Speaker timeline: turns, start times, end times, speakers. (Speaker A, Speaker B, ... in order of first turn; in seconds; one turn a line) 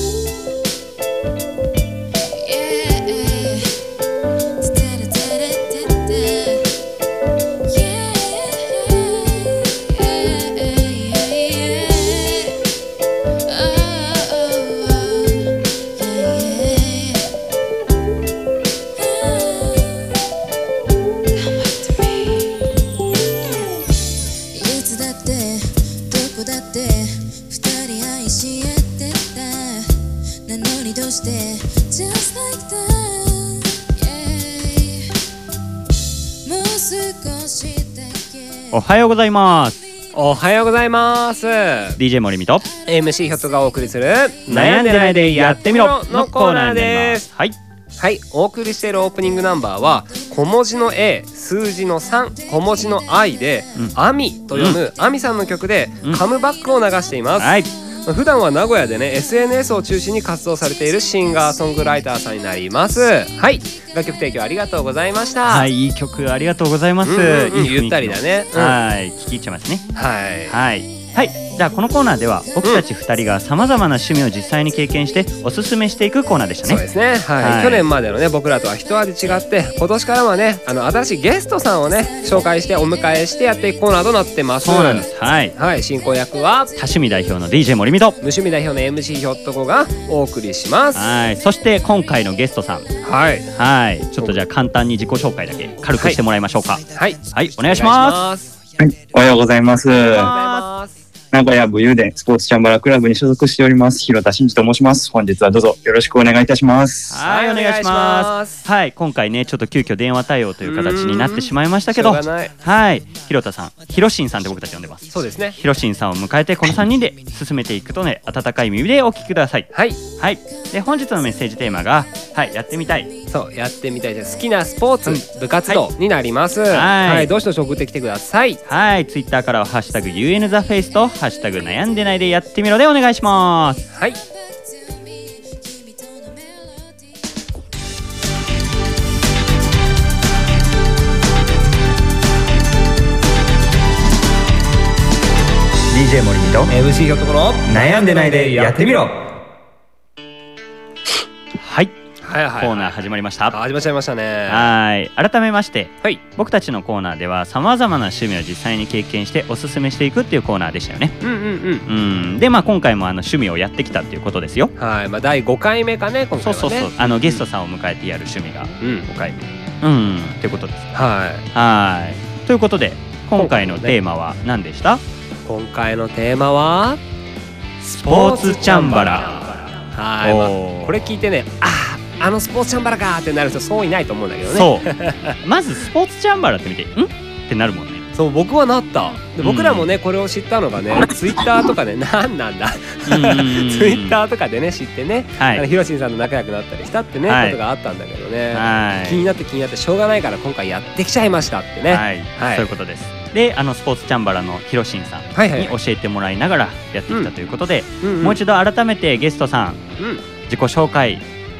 Speaker A: 2.4-3.8
Speaker A: 4.6-6.7
Speaker A: 7.7-12.6
Speaker A: 13.5-17.3
Speaker A: 19.0-20.2
Speaker A: 21.6-22.8
Speaker A: 24.5-29.9
Speaker A: 30.5-35.1
Speaker A: 36.5-38.3
Speaker B: 38.7-39.8
Speaker C: 40.1-42.0
Speaker B: 42.0-42.7
Speaker C: 42.9-47.3
Speaker B: 44.5-47.6
Speaker C: 48.0-65.7
Speaker B: 54.5-54.8
Speaker B: 57.4-57.7
Speaker B: 65.5-69.9
Speaker C: 67.0-68.8
Speaker C: 70.0-70.6
Speaker B: 70.5-76.8
Speaker C: 76.6-86.7
Speaker B: 77.4-77.9
Speaker B: 84.6-85.5
Speaker B: 86.8-88.2
Speaker C: 88.2-91.1
Speaker B: 90.9-92.9
Speaker C: 93.0-93.5
Speaker B: 93.5-98.2
Speaker C: 96.9-98.6
Speaker D: 98.8-100.3
Speaker C: 100.1-101.0
Speaker B: 100.1-100.7
Speaker D: 101.3-107.2
Speaker B: 107.1-123.1
Speaker C: 107.2-108.6
Speaker C: 110.6-112.5
Speaker C: 115.1-115.6
Speaker C: 119.7-120.0
Speaker C: 123.3-128.6
Speaker B: 125.0-125.9
Speaker B: 126.7-127.3
Speaker B: 128.7-133.8
Speaker C: 133.9-134.2
Speaker A: 135.9-136.1
Speaker B: 145.9-146.7
Speaker C: 146.7-149.1
Speaker B: 147.7-148.1
Speaker B: 151.6-151.9
Speaker C: 152.2-152.9
Speaker B: 152.6-153.6
Speaker C: 153.5-154.7
Speaker B: 154.5-161.2
Speaker C: 161.2-161.8
Speaker B: 161.8-164.7
Speaker C: 164.8-167.4
Speaker B: 166.4-170.9
Speaker C: 168.8-169.1
Speaker C: 170.9-171.5
Speaker B: 171.5-175.0
Speaker C: 173.4-174.0
Speaker C: 175.4-177.0
Speaker C: 177.8-179.3
Speaker B: 178.0-179.6
Speaker C: 179.9-185.3
Speaker B: 180.2-181.0
Speaker B: 184.5-188.0
Speaker C: 188.2-202.7
Speaker B: 189.4-189.9
Speaker B: 193.1-194.2
Speaker B: 195.4-195.6
Speaker B: 197.3-197.6
Speaker B: 198.5-199.3
Speaker B: 201.9-209.8
Speaker C: 205.3-205.7
Speaker C: 208.0-208.4
Speaker B: 210.5-211.2